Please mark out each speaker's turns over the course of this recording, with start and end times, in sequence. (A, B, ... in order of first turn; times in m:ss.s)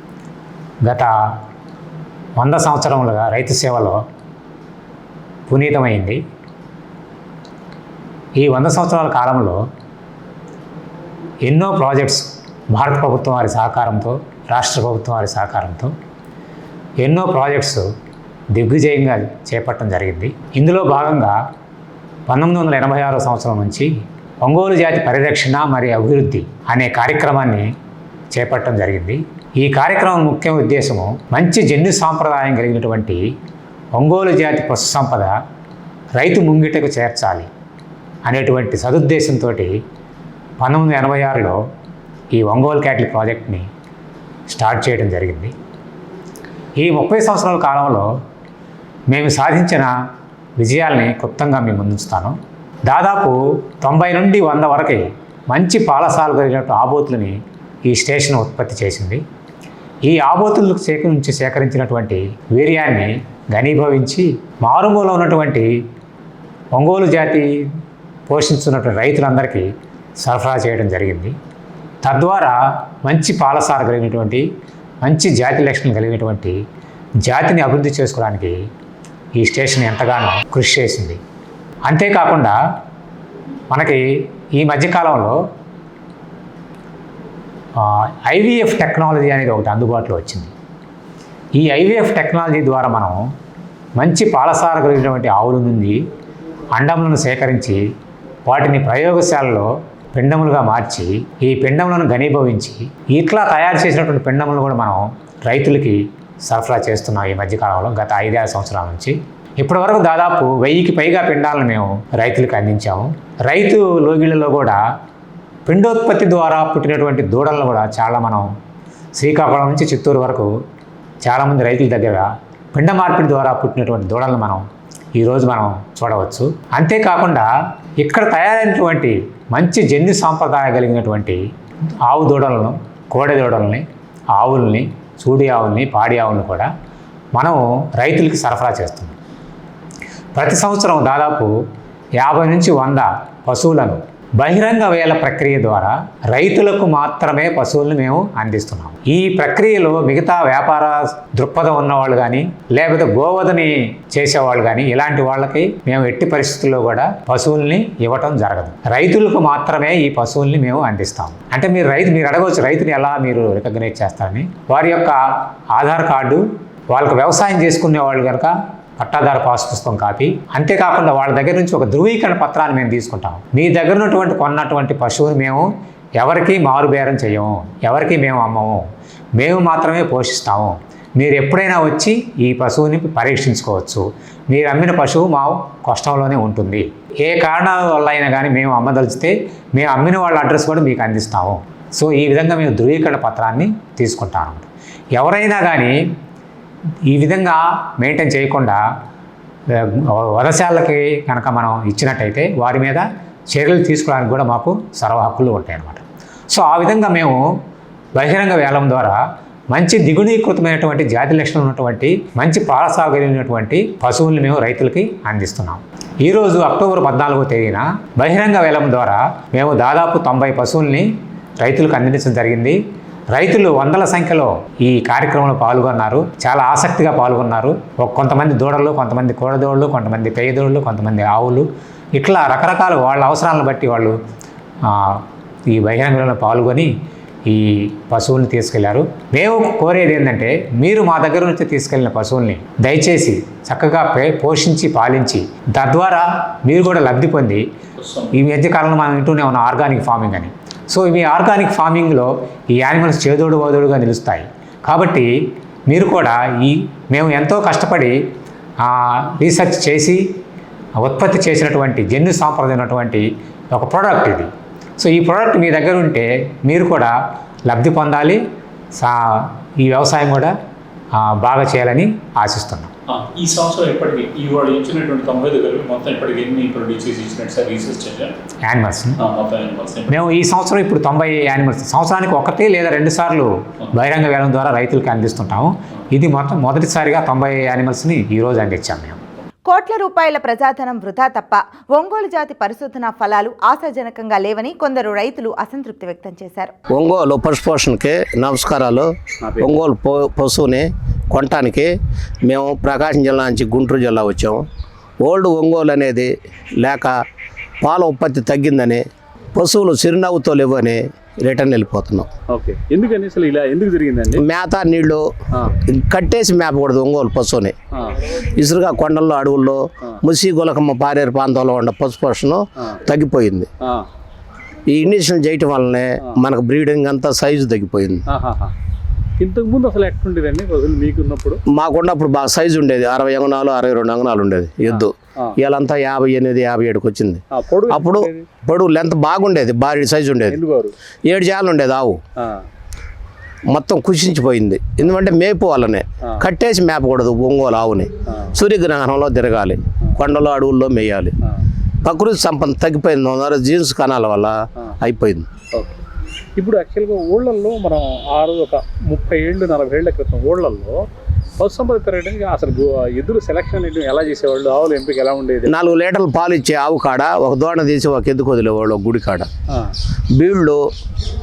0:00.8-0:01.4 A
0:02.4-0:04.0 A
0:05.5-0:06.2 A
0:08.4-0:09.6 A
0:11.4-0:15.9 A
0:17.0-0:17.9 A
0:18.5-0:21.4 A
0:22.3-0:23.9 A
0:24.4-0:27.7 A
0:28.3-0:33.3 A
0:34.0-0:35.4 A
0:36.2-0:37.5 A
0:38.2-0:39.8 A
0:40.6-0:41.6 A
0:42.3-0:43.7 A
0:44.5-0:45.5 A
0:46.8-0:48.1 A
0:49.1-0:49.9 A
0:50.6-0:57.4 A
0:57.9-0:59.2 A
1:00.0-1:05.7 A
1:06.8-1:07.5 A
1:08.3-1:09.7 A
1:10.2-1:11.3 A
1:12.0-1:14.4 A
1:15.0-1:16.6 A
1:17.2-1:18.6 A
1:19.4-1:21.2 A
1:21.8-1:22.6 A
1:23.7-1:25.4 A
1:27.8-1:30.5 A
1:31.6-1:33.2 A
1:34.0-1:36.0 A
1:36.7-1:37.8 A
1:38.5-1:54.8 A
1:55.7-1:58.5 A
1:59.2-2:00.5 A
2:01.2-2:04.7 A
2:05.2-2:07.5 A
2:08.0-2:11.4 A
2:12.1-2:16.7 A
2:17.4-2:19.2 A
2:20.4-2:21.5 A
2:22.2-2:45.2 A
2:45.7-2:55.7 A
2:56.2-2:58.8 A
2:59.4-3:16.0 A
3:17.1-3:18.8 A
3:19.7-3:27.4 A
3:28.2-3:29.2 A
3:29.7-3:41.1 A
3:41.6-3:42.8 A
3:43.3-3:54.2 A
3:54.8-3:56.9 A
3:57.5-4:07.6 A
4:08.0-4:08.3 B
4:08.3-4:15.3 A
4:15.9-4:18.2 A
4:18.8-4:20.2 A
4:21.0-4:27.2 A
4:27.7-4:28.4 A
4:29.0-4:30.5 A
4:31.2-4:32.9 A
4:33.1-4:38.4 B
4:38.6-4:39.2 A
4:39.2-4:40.2 B
4:40.1-4:49.2 A
4:49.7-4:56.7 C
4:56.9-5:01.9 D
4:59.4-4:59.7 B
5:02.4-5:04.6 D
5:05.2-5:07.2 D
5:07.8-5:12.3 D
5:12.5-5:14.4 B
5:14.4-5:15.3 D
5:15.8-5:17.7 D
5:17.9-5:18.2 B
5:18.4-5:23.7 D
5:23.8-5:24.1 B
5:24.9-5:28.2 D
5:28.3-5:28.7 B
5:29.4-5:31.6 B
5:31.7-5:40.6 D
5:34.9-5:35.6 B
5:37.5-5:38.5 B
5:40.5-5:41.0 B
5:41.3-5:42.2 D
5:42.4-5:42.6 B
5:43.7-5:51.3 D
5:52.0-5:55.5 D
5:56.6-6:01.0 B
6:01.6-6:05.7 B
6:05.7-6:09.5 D
6:10.3-6:10.8 D